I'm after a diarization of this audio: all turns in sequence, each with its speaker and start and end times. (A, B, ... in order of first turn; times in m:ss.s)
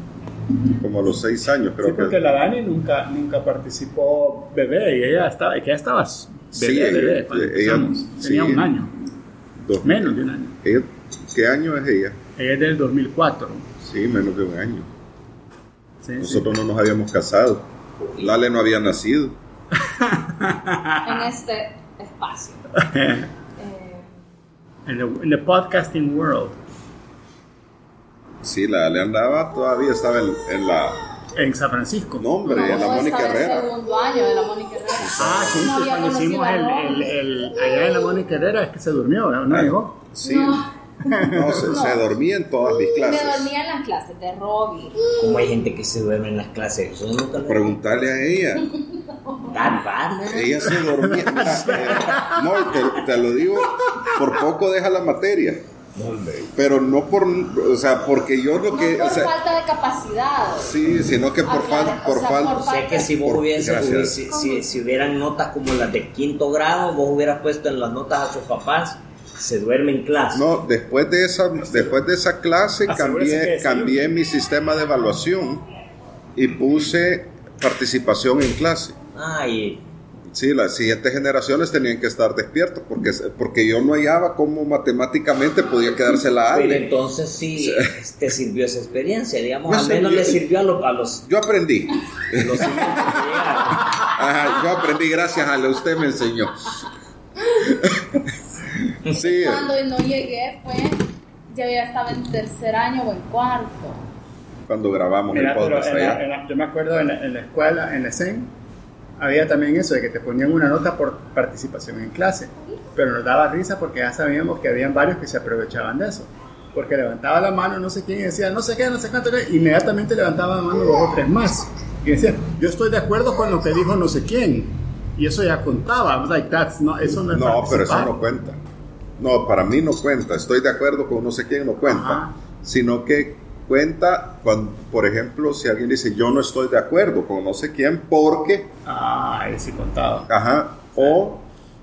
0:00.8-0:02.2 A
0:01.8-0:08.9 B
0:06.5-0:08.7 A
0:09.6-0:12.2 A
0:09.8-0:10.6 B
0:12.4-0:13.7 B
0:13.8-0:14.9 A
0:16.0-0:16.5 B
0:16.2-0:17.6 A
0:18.0-0:18.3 C
0:18.2-0:19.4 A
0:19.8-0:21.3 B
0:21.0-0:22.6 D
0:22.8-0:23.3 B
0:23.6-0:24.1 D
0:24.9-0:26.6 B
0:28.4-0:31.0 A
0:31.4-0:32.8 B
0:32.2-0:33.7 A
0:32.4-0:37.1 D
0:35.0-0:35.7 A
0:35.2-0:40.0 B
0:39.5-0:40.7 A
0:40.2-0:40.7 D
0:41.0-0:41.7 B
0:41.3-0:43.5 A
0:41.7-0:42.0 D
0:42.8-0:45.0 D
0:45.2-0:47.8 C
0:47.5-0:48.7 A
0:49.1-0:49.6 D
0:49.5-0:50.7 C
0:50.3-0:55.7 A
0:50.8-0:52.5 B
0:56.0-0:56.5 C
0:56.5-0:59.3 A
0:58.7-1:00.8 D
1:00.6-1:04.2 A
1:01.4-1:03.1 D
1:02.6-1:10.5 C
1:10.3-1:15.6 A
1:12.9-1:14.1 B
1:16.4-1:19.0 A
1:19.1-1:19.8 C
1:20.3-1:26.9 A
1:26.5-1:31.3 C
1:27.6-1:27.9 A
1:29.7-1:30.4 A
1:31.2-1:33.2 A
1:32.3-1:34.0 C
1:34.0-1:36.8 A
1:37.6-1:38.3 A
1:39.0-1:39.7 A
1:39.1-1:44.0 D
1:44.7-1:46.2 A
1:45.3-1:48.5 B
1:49.2-2:08.1 B
2:07.3-2:08.6 A
2:09.2-2:18.7 A
2:11.9-2:12.3 B
2:18.9-2:20.3 B
2:20.3-2:21.4 A